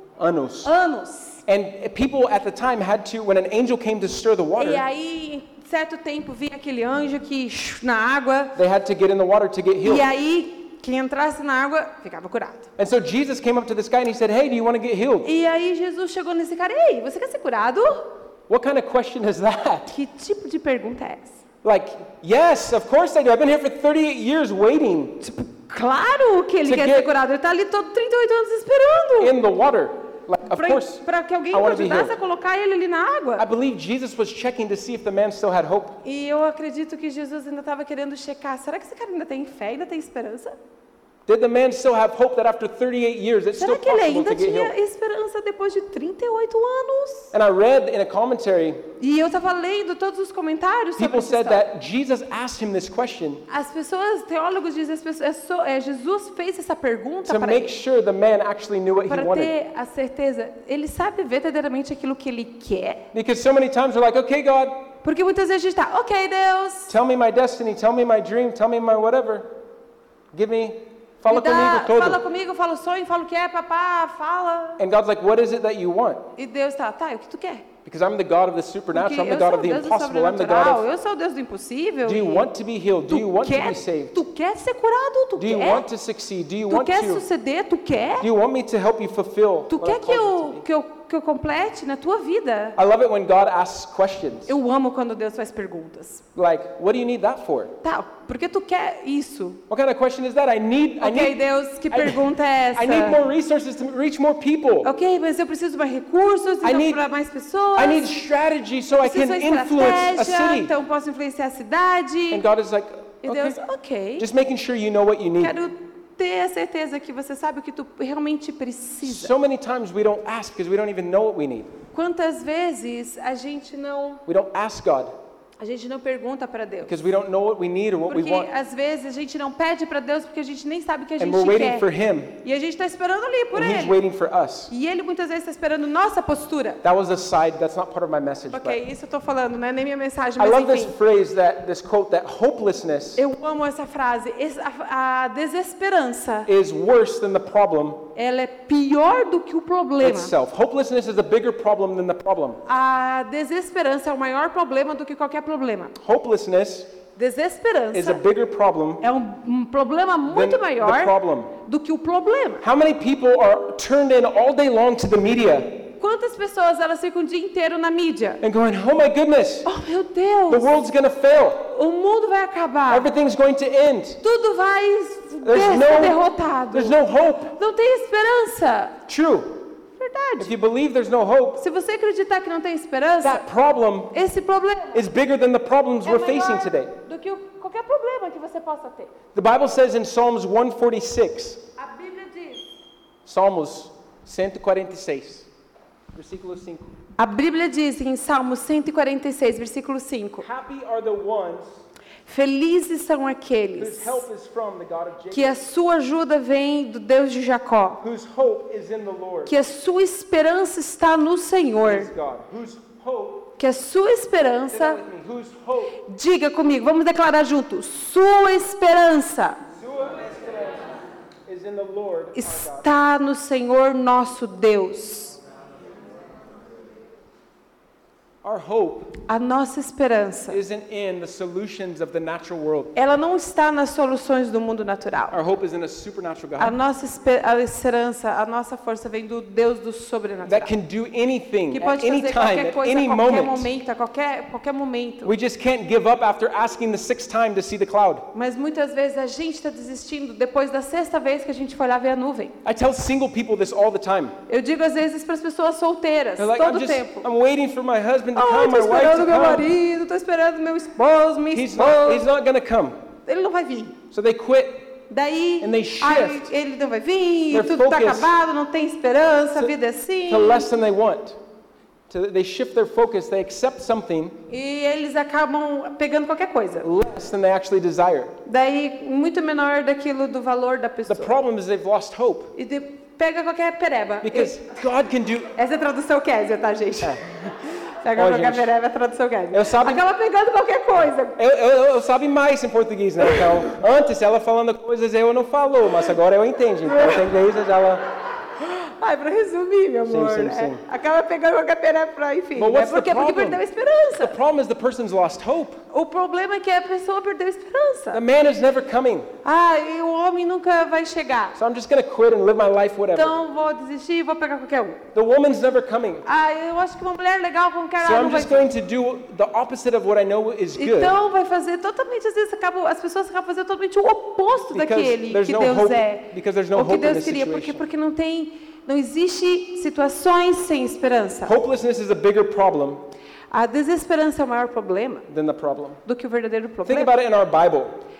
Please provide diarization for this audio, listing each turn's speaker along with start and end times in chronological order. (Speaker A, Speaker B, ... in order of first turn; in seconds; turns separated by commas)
Speaker A: 0.2-0.7, Speaker B: 0.6-1.4, Speaker A: 1.4-4.8, Speaker B: 4.6-8.6, Speaker A: 8.6-10.1, Speaker B: 9.8-12.7, Speaker A: 12.8-15.3, Speaker B: 15.2-18.1, Speaker A: 18.5-19.9, Speaker B: 19.9-21.4, Speaker A: 21.6-25.2, Speaker B: 25.2-29.3, Speaker A: 26.6-27.1, Speaker A: 29.2-32.1, Speaker B: 30.5-33.5, Speaker A: 33.4-36.0, Speaker B: 36.0-40.5, Speaker A: 41.2-44.7, Speaker B: 43.5-47.3, Speaker A: 47.3-48.8, Speaker B: 49.0-51.6, Speaker A: 51.0-53.4, Speaker B: 53.5-57.7, Speaker A: 57.2-59.5, Speaker B: 59.1-63.0, Speaker A: 63.1-64.8, Speaker B: 65.0-66.9, Speaker A: 66.9-69.5, Speaker A: 70.3-72.2, Speaker B: 71.3-74.8, Speaker A: 74.8-76.3, Speaker B: 76.3-77.7, Speaker A: 77.8-80.8, Speaker B: 78.9-82.5, Speaker A: 82.0-84.2, Speaker B: 83.1-85.8, Speaker A: 85.4-87.2, Speaker B: 86.7-88.3, Speaker A: 88.2-90.6, Speaker B: 89.7-92.8, Speaker A: 92.8-94.5, Speaker B: 94.5-96.2, Speaker A: 96.3-97.7, Speaker B: 97.8-99.6, Speaker A: 99.7-101.4, Speaker B: 101.0-103.2, Speaker A: 101.9-102.2, Speaker A: 102.7-104.9, Speaker B: 104.8-108.1, Speaker A: 106.6-107.0, Speaker A: 107.8-110.7, Speaker B: 109.0-112.4, Speaker A: 112.3-113.6, Speaker B: 113.2-114.2, Speaker A: 114.2-115.5, Speaker B: 115.4-119.3, Speaker A: 119.0-121.8, Speaker B: 121.9-124.2, Speaker A: 124.2-125.1, Speaker B: 125.6-127.0, Speaker A: 126.8-128.5, Speaker B: 128.1-131.9, Speaker A: 131.2-132.4, Speaker B: 132.4-134.0, Speaker A: 133.5-134.7, Speaker B: 134.7-136.8, Speaker A: 136.8-138.8, Speaker B: 138.5-140.9, Speaker A: 140.4-143.2, Speaker B: 143.2-146.5, Speaker A: 146.5-148.1, Speaker B: 148.1-150.3, Speaker A: 150.0-152.6, Speaker B: 152.7-155.9, Speaker A: 156.0-156.9, Speaker B: 157.2-158.2, Speaker A: 157.9-159.0, Speaker B: 159.0-162.6, Speaker A: 160.3-161.5, Speaker A: 162.6-165.9, Speaker B: 166.0-168.4, Speaker A: 168.4-169.7, Speaker B: 169.6-170.7, Speaker A: 170.5-171.7, Speaker B: 171.6-173.1, Speaker A: 172.9-174.2, Speaker B: 174.2-176.9, Speaker A: 175.4-177.6, Speaker B: 177.5-179.0, Speaker A: 179.1-179.7, Speaker B: 179.9-180.5, Speaker A: 180.4-181.6, Speaker B: 181.6-183.4, Speaker A: 183.2-184.1, Speaker B: 184.1-185.1, Speaker A: 184.9-186.9, Speaker B: 186.0-189.1, Speaker A: 189.3-191.6, Speaker B: 191.8-192.7, Speaker A: 193.2-195.5, Speaker A: 196.1-196.9, Speaker B: 197.2-200.4, Speaker A: 200.4-201.7, Speaker B: 202.2-204.2, Speaker A: 203.8-205.6, Speaker B: 205.3-208.0, Speaker A: 208.0-209.5, Speaker B: 209.4-212.1, Speaker A: 211.8-213.5, Speaker B: 213.6-215.0, Speaker A: 214.7-216.0, Speaker B: 216.0-219.6, Speaker A: 219.7-220.9, Speaker A: 221.5-222.9, Speaker B: 222.3-225.4, Speaker A: 228.4-229.1, Speaker B: 229.3-230.6, Speaker A: 230.5-232.9, Speaker B: 232.9-235.4, Speaker A: 235.3-236.8, Speaker B: 236.6-240.7, Speaker A: 240.4-243.7, Speaker B: 241.7-245.3, Speaker A: 245.2-248.3, Speaker B: 248.3-252.6, Speaker A: 252.6-254.3, Speaker B: 254.5-257.2, Speaker A: 256.4-259.7, Speaker B: 258.3-262.3, Speaker A: 261.5-263.0, Speaker B: 263.2-264.0, Speaker A: 264.1-264.9, Speaker B: 265.1-270.7, Speaker A: 265.6-266.5, Speaker A: 267.5-268.3, Speaker A: 270.3-271.4, Speaker A: 272.1-274.4, Speaker B: 274.5-276.9, Speaker A: 276.8-278.4, Speaker B: 278.4-281.4, Speaker A: 281.1-282.5, Speaker B: 282.5-284.7, Speaker A: 284.2-285.5, Speaker B: 285.5-287.2, Speaker A: 287.0-288.7, Speaker B: 288.0-291.4, Speaker A: 289.5-290.0, Speaker A: 291.4-298.0, Speaker B: 296.9-297.2, Speaker B: 298.6-304.4, Speaker A: 300.0-300.8, Speaker A: 302.6-303.6, Speaker A: 304.2-305.8, Speaker B: 305.9-308.2, Speaker A: 308.1-309.3, Speaker B: 309.4-311.6, Speaker A: 311.6-313.3, Speaker B: 313.1-315.0, Speaker A: 315.1-316.2, Speaker B: 316.2-318.7, Speaker A: 318.0-321.2, Speaker B: 320.8-331.6, Speaker A: 324.7-327.9, Speaker A: 331.4-333.0, Speaker B: 333.5-335.2, Speaker A: 335.3-336.0, Speaker B: 336.1-337.1, Speaker A: 336.9-337.9